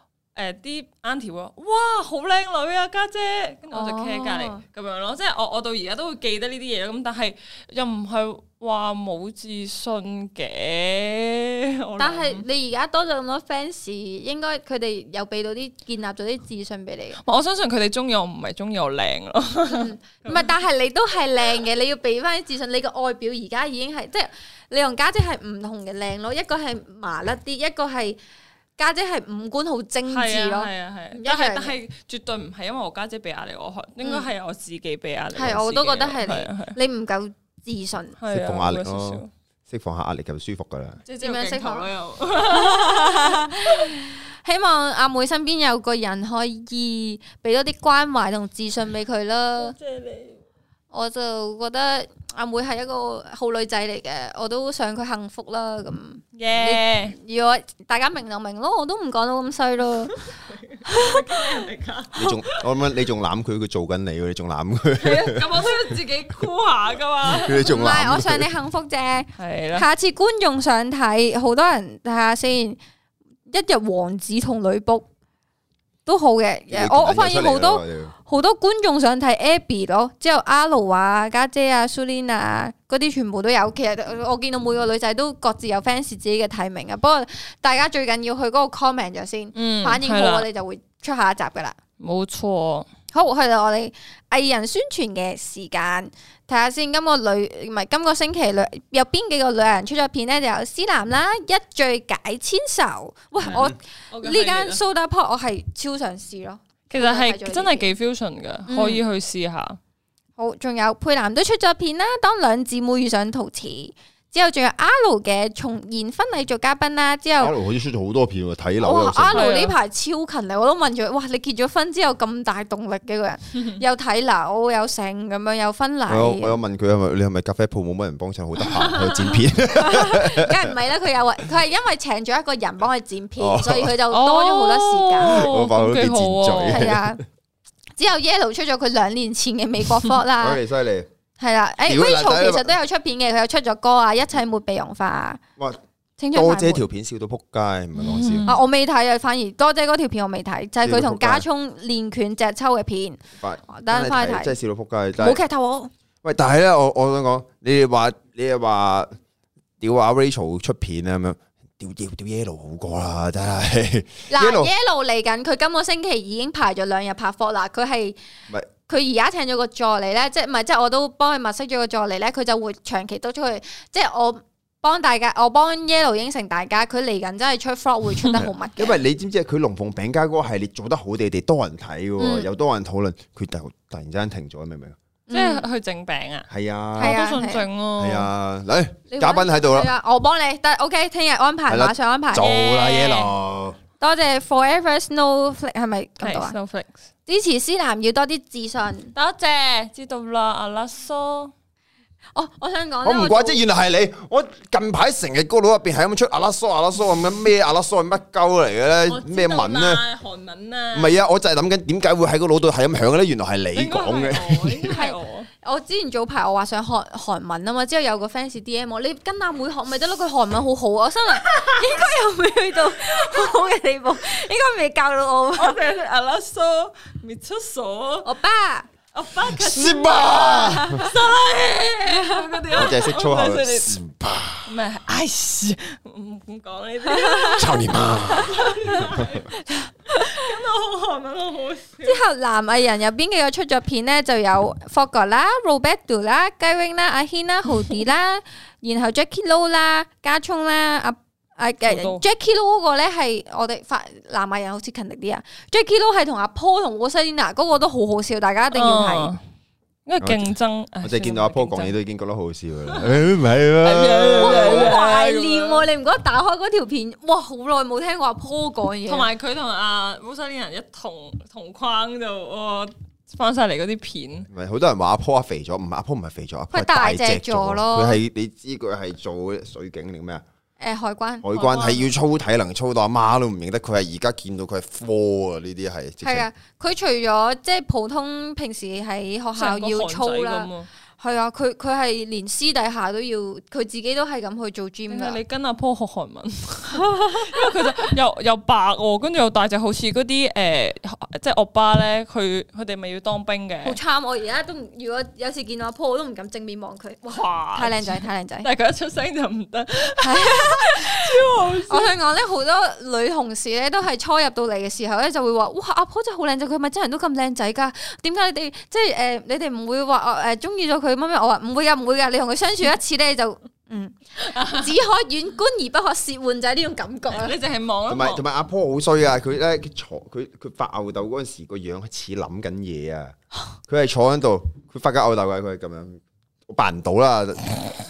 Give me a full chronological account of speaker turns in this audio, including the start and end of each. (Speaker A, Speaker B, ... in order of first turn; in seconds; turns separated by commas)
Speaker A: 0.3-12.4, Speaker B: 3.7-4.6, Speaker B: 12.0-17.2, Speaker A: 17.2-20.5, Speaker B: 19.7-28.2, Speaker B: 28.8-31.7, Speaker A: 30.1-36.8, Speaker B: 35.4-38.1, Speaker A: 38.2-39.3, Speaker C: 38.3-41.0, Speaker A: 41.1-43.9, Speaker B: 41.2-41.9, Speaker B: 42.4-49.8, Speaker A: 49.6-50.4, Speaker B: 50.9-60.2, Speaker A: 56.3-57.1, Speaker A: 60.7-62.6, Speaker B: 60.9-61.6, Speaker C: 62.2-65.8, Speaker A: 65.0-67.7, Speaker C: 67.3-68.5, Speaker B: 67.6-72.8, Speaker A: 69.4-69.9, Speaker B: 73.5-75.1, Speaker B: 76.1-91.8, Speaker C: 76.7-78.1, Speaker A: 89.5-90.5, Speaker A: 92.0-92.9, Speaker B: 93.1-107.9, Speaker C: 103.4-103.7, Speaker A: 103.5-104.8, Speaker A: 106.9-109.8, Speaker B: 108.7-109.0, Speaker B: 110.4-117.5, Speaker C: 117.4-119.5, Speaker B: 118.8-126.6, Speaker A: 119.3-119.8, Speaker C: 126.1-130.6, Speaker A: 128.8-129.3, Speaker B: 129.7-135.5, Speaker C: 133.4-134.0, Speaker A: 134.1-136.9, Speaker C: 135.3-137.1, Speaker B: 136.7-137.2, Speaker B: 138.0-140.6, Speaker C: 140.4-141.1, Speaker B: 141.4-145.4, Speaker C: 141.8-142.7, Speaker B: 146.2-146.8, Speaker C: 146.3-148.5, Speaker A: 148.0-148.6, Speaker B: 148.5-154.5, Speaker C: 150.8-151.4, Speaker C: 153.4-155.4, Speaker B: 155.2-155.9, Speaker C: 156.2-159.1, Speaker C: 159.8-164.7, Speaker B: 164.3-168.2, Speaker B: 168.9-178.9, Speaker C: 178.4-185.0, Speaker B: 182.2-182.5, Speaker B: 185.3-185.7, Speaker A: 185.3-188.3, Speaker C: 186.5-187.2, Speaker B: 187.0-187.7, Speaker C: 188.0-189.9, Speaker B: 189.1-192.6, Speaker C: 191.7-193.8, Speaker A: 192.4-193.3, Speaker B: 194.0-196.6, Speaker A: 196.2-197.0, Speaker B: 197.3-199.1, Speaker A: 199.2-201.5, Speaker B: 202.3-203.6, Speaker C: 203.0-210.0, Speaker A: 209.1-211.2, Speaker C: 210.9-214.9, Speaker A: 213.7-215.5, Speaker B: 214.9-225.8, Speaker A: 221.4-222.0, Speaker A: 225.6-228.3, Speaker B: 228.2-228.9, Speaker A: 229.1-234.0, Speaker C: 229.5-231.1, Speaker B: 230.7-231.1, Speaker B: 232.1-232.7, Speaker C: 232.7-234.8, Speaker A: 234.7-239.5, Speaker B: 237.1-237.6, Speaker C: 237.6-239.3, Speaker B: 238.5-239.1, Speaker B: 239.7-240.4, Speaker A: 240.1-242.2, Speaker B: 242.0-259.3, Speaker A: 251.9-252.2, Speaker A: 258.7-259.4, Speaker A: 260.1-261.9, Speaker C: 260.2-260.5, Speaker C: 261.0-265.0, Speaker A: 262.9-263.2, Speaker A: 263.8-265.9, Speaker B: 264.4-269.3, Speaker A: 269.1-274.5, Speaker C: 274.5-280.4, Speaker B: 276.7-278.2, Speaker B: 280.8-281.5, Speaker C: 281.4-286.5, Speaker A: 281.5-282.1, Speaker B: 286.2-295.4, Speaker A: 289.6-290.9, Speaker A: 295.1-304.0, Speaker B: 297.2-297.5, Speaker B: 303.8-308.7, Speaker A: 307.3-312.2, Speaker B: 310.2-311.3, Speaker B: 311.9-327.6, Speaker A: 324.4-324.9, Speaker A: 327.3-328.4, Speaker C: 328.1-333.4, Speaker C: 333.9-337.7